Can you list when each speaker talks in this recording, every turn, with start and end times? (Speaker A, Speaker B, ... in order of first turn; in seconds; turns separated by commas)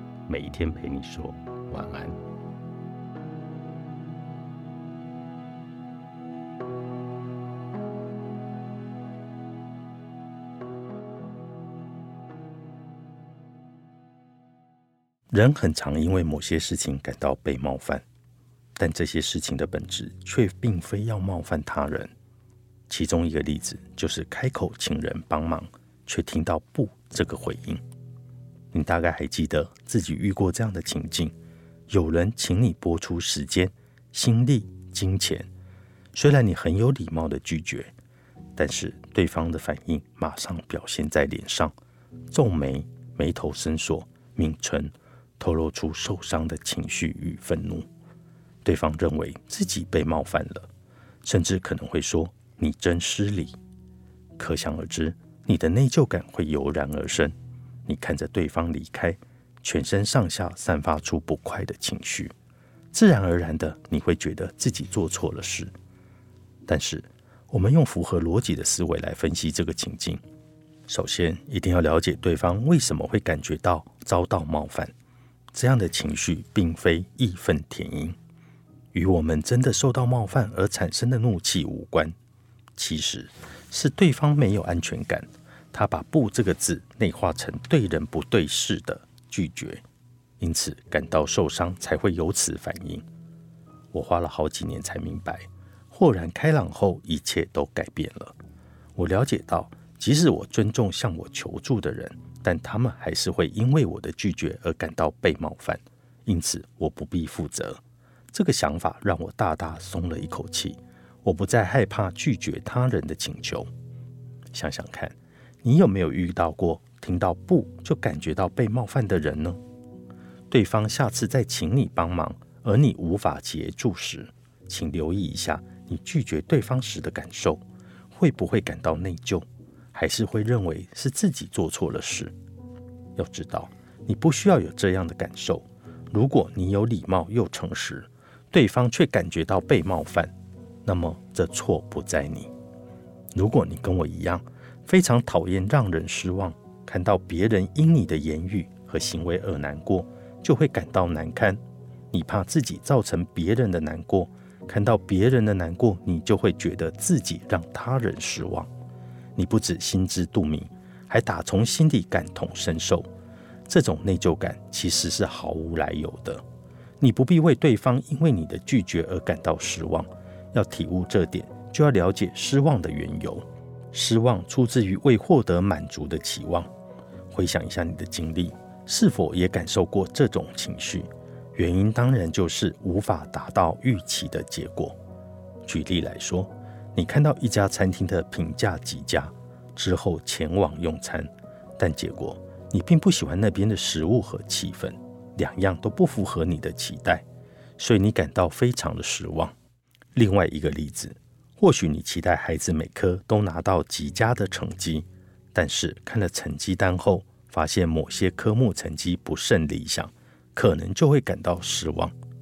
Speaker A: 0.3-2.2, Speaker A: 15.3-18.0, Speaker A: 18.8-22.1, Speaker A: 22.9-27.8, Speaker A: 28.7-31.3, Speaker A: 31.9-35.5, Speaker A: 36.1-37.9, Speaker A: 38.5-41.7, Speaker A: 42.3-47.9, Speaker A: 48.6-50.7, Speaker A: 51.2-53.5, Speaker A: 54.4-57.3, Speaker A: 57.9-62.3, Speaker A: 62.9-65.7, Speaker A: 66.7-70.2, Speaker A: 70.9-74.9, Speaker A: 75.5-78.2, Speaker A: 78.9-82.1, Speaker A: 82.8-89.8, Speaker A: 90.4-93.0, Speaker A: 93.9-98.3, Speaker A: 99.0-107.8, Speaker A: 108.3-113.7, Speaker A: 114.5-119.6, Speaker A: 120.5-127.6, Speaker A: 128.1-132.3, Speaker A: 133.2-140.3, Speaker A: 140.8-142.5, Speaker A: 143.3-151.6, Speaker A: 152.1-158.7, Speaker A: 159.3-163.1, Speaker A: 163.7-166.4, Speaker A: 167.0-176.7, Speaker A: 177.3-184.9, Speaker A: 185.6-197.2, Speaker A: 197.8-199.5, Speaker A: 200.1-212.1